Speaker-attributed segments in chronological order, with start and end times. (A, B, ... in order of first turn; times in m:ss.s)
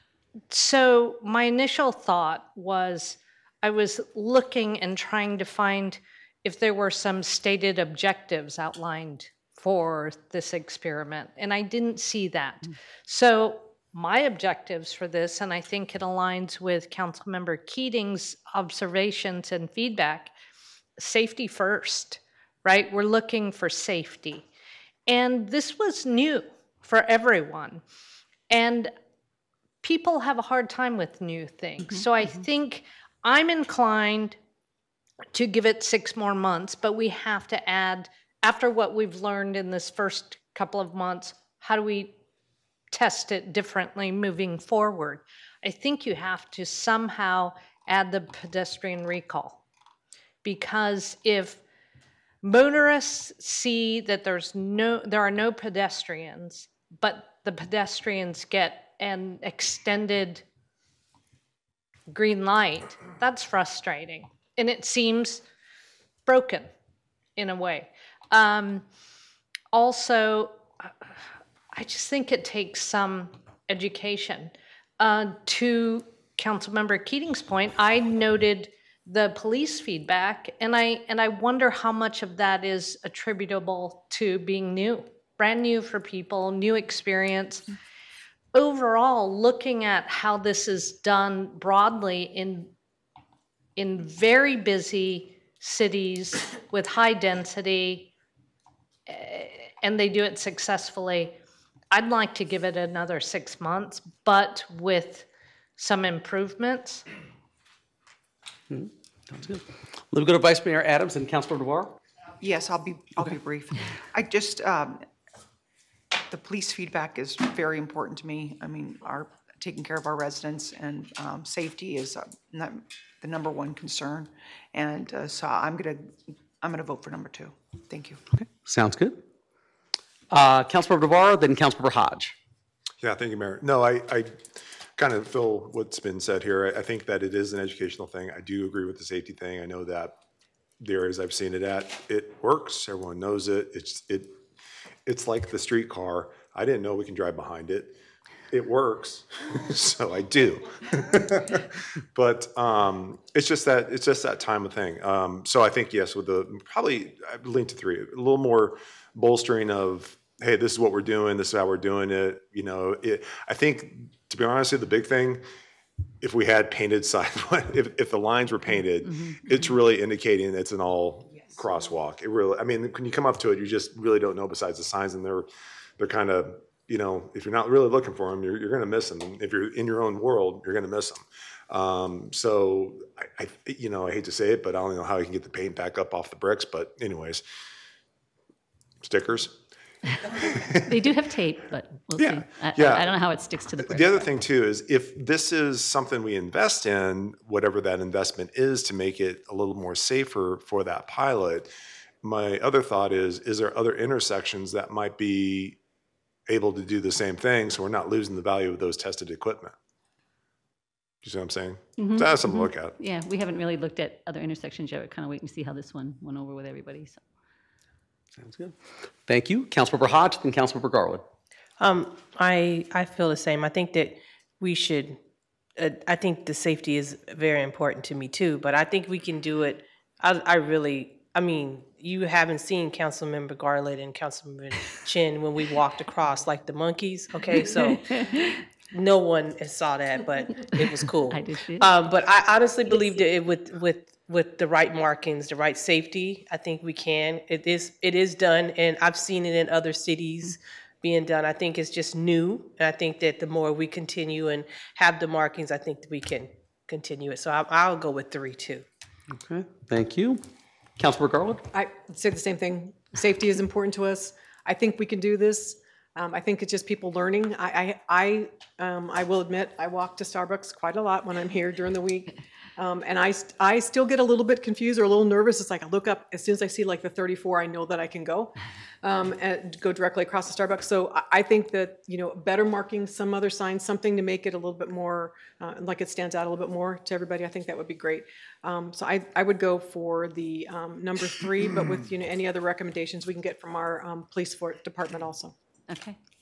0:00.5-0:20.3 A
0:21.0-0:24.5 A
0:25.1-0:27.8 A
0:28.5-0:28.9 A
0:29.8-0:34.4 A
0:35.3-0:42.2 A
0:42.9-0:49.6 A
0:50.4-0:51.6 A
0:52.4-1:00.4 A
1:02.1-1:05.4 A
1:06.3-1:06.7 A
1:07.4-1:08.8 A
1:09.7-1:10.9 A
1:11.7-1:27.7 A
1:28.5-1:32.7 A
1:33.8-1:38.1 A
1:39.1-1:41.4 A
1:41.9-1:45.3 A
1:45.8-1:47.0 A
1:48.7-1:52.0 B
1:52.4-1:55.0 C
1:56.3-2:08.2 C
2:08.3-2:09.2 B
2:10.3-2:12.4 B
2:13.0-2:20.2 D
2:20.8-2:24.4 D
2:25.1-2:28.0 D
2:28.5-2:31.6 D
2:32.1-2:45.4 D
2:46.2-2:55.5 D
2:49.0-2:49.7 E
2:56.0-3:07.4 D
3:09.0-3:09.6 D
3:10.4-3:11.0 D
3:10.9-3:14.3 E
3:12.2-3:13.2 D
3:13.7-3:21.7 D
3:22.2-3:25.8 D
3:26.5-3:29.7 D
3:31.2-3:33.0 D
3:32.0-3:37.2 E
3:38.4-3:41.2 B
3:41.8-3:45.2 F
3:45.8-3:58.2 F
3:57.6-3:57.9 E
3:58.9-4:18.8 F
4:00.8-4:01.9 E
4:02.9-4:03.3 E
4:19.3-4:20.4 B
4:21.0-4:21.6 B
4:21.7-4:55.5 G
4:55.9-4:56.2 E